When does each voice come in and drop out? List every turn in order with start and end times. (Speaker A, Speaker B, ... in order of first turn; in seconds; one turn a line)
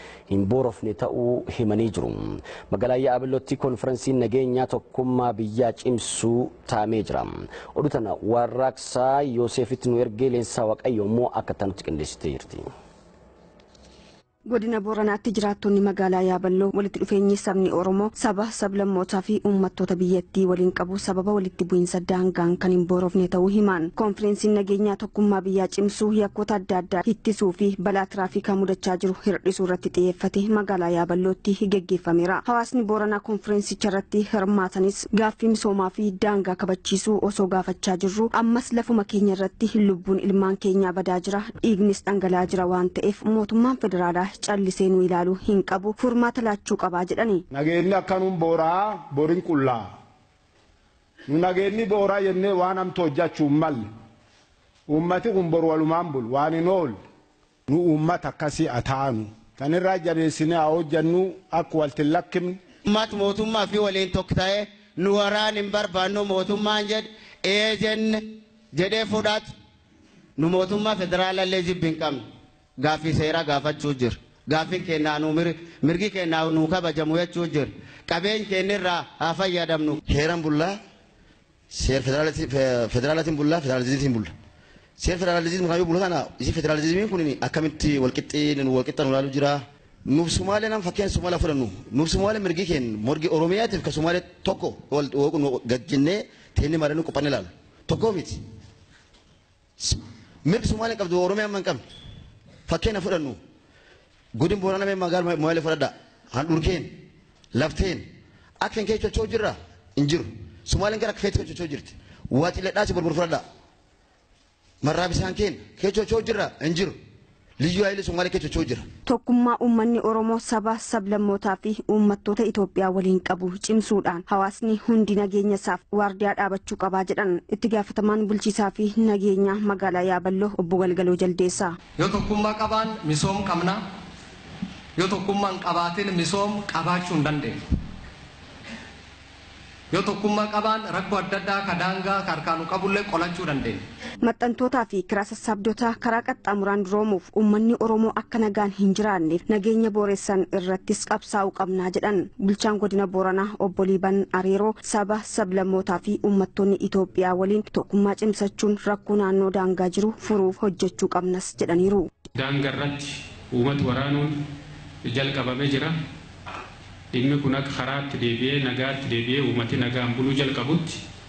Speaker A: 0.3-12.7
Speaker B: 14.5-47.4
Speaker C: 47.5-49.9
Speaker C: 51.3-53.9
Speaker C: 54.9-57.0
Speaker C: 57.7-62.6
Speaker D: 62.9-69.5
Speaker D: 70.4-72.2
Speaker D: 72.8-80.0
Speaker E: 80.1-80.8
Speaker E: 81.7-84.3
Speaker E: 85.0-98.4
Speaker E: 99.8-101.8
Speaker E: 102.7-103.4
Speaker E: 104.4-106.9
Speaker E: 107.5-108.1
Speaker E: 108.6-113.4
Speaker E: 114.8-117.0
Speaker E: 117.6-118.9
Speaker B: 119.1-131.7
Speaker F: 132.0-133.8
Speaker F: 135.0-137.6
Speaker F: 139.9-143.8
Speaker B: 144.2-162.1
Speaker G: 162.4-164.3
Speaker G: 165.1-165.9
Speaker G: 167.1-171.0